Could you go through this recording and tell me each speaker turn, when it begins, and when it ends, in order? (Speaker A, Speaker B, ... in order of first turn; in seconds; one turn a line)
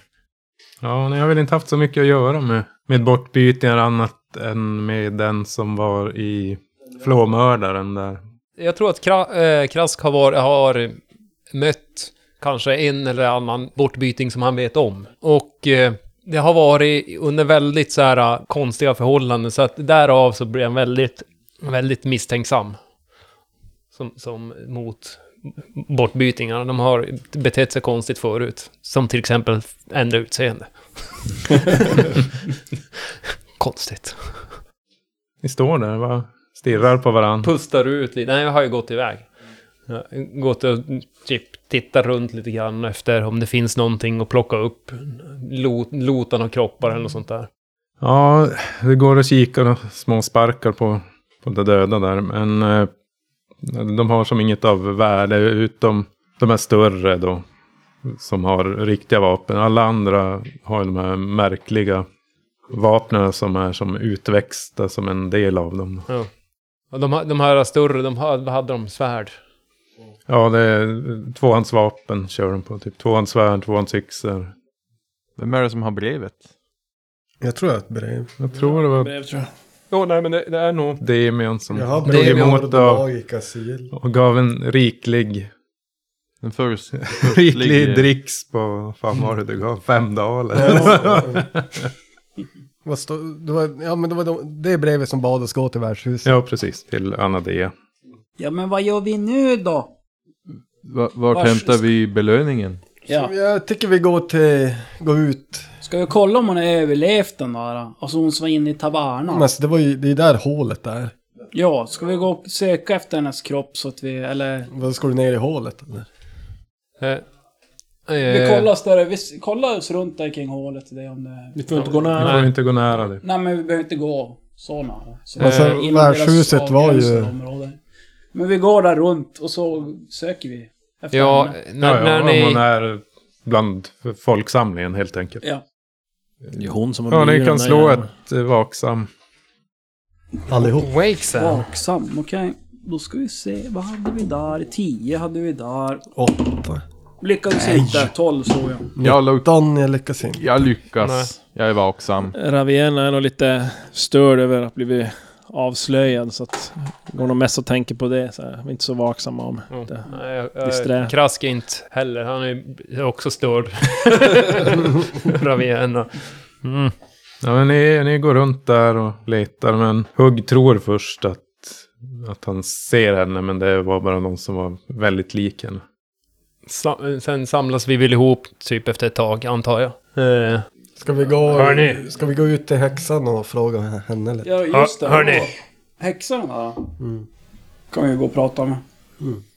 Speaker A: 0.8-8.2
Speaker B: 8.6-11.0
Speaker B: 11.5-22.8
Speaker B: 23.9-32.3
Speaker B: 33.6-34.5
Speaker A: 35.4-37.5
Speaker B: 37.4-39.3
Speaker B: 39.9-47.5
Speaker A: 48.0-52.9
Speaker A: 53.6-57.4
Speaker A: 58.1-62.1
Speaker A: 62.7-66.1
Speaker B: 66.9-69.4
Speaker A: 70.3-74.5
Speaker C: 75.4-76.4
Speaker D: 77.4-78.3
Speaker A: 78.4-79.1
Speaker E: 78.5-79.5
Speaker B: 79.9-81.0
Speaker A: 81.0-83.0
Speaker D: 81.7-83.9
Speaker B: 82.0-82.6
Speaker A: 83.9-85.5
Speaker C: 86.4-88.1
Speaker A: 87.0-91.9
Speaker D: 90.5-91.5
Speaker D: 92.8-96.3
Speaker A: 96.2-97.7
Speaker F: 98.4-99.9
Speaker C: 100.8-102.8
Speaker F: 101.3-101.8
Speaker D: 103.1-105.7
Speaker F: 105.8-109.5
Speaker D: 109.3-111.1
Speaker F: 111.5-114.7
Speaker D: 114.7-116.1
Speaker B: 118.1-118.7
Speaker F: 118.2-122.2
Speaker E: 121.5-122.5
Speaker B: 122.2-122.5
Speaker A: 122.2-123.2
Speaker F: 123.2-127.8
Speaker B: 125.4-125.8
Speaker D: 125.4-127.3
Speaker F: 128.3-131.6
Speaker B: 131.1-132.6
Speaker A: 131.8-135.4
Speaker E: 136.5-138.1
Speaker A: 137.1-139.1
Speaker D: 140.5-140.9
Speaker B: 140.7-141.6
Speaker F: 141.3-146.1
Speaker D: 146.2-146.8
Speaker F: 147.2-148.9
Speaker D: 147.6-148.1
Speaker D: 149.0-150.4
Speaker C: 149.0-149.4
Speaker C: 150.4-152.3
Speaker B: 151.0-151.3
Speaker E: 152.3-161.1
Speaker B: 159.7-166.9
Speaker A: 167.4-175.8
Speaker B: 176.7-180.7
Speaker D: 181.0-184.5
Speaker B: 181.5-182.0
Speaker F: 184.4-186.9
Speaker B: 184.7-185.5
Speaker D: 187.0-187.2
Speaker F: 187.9-188.8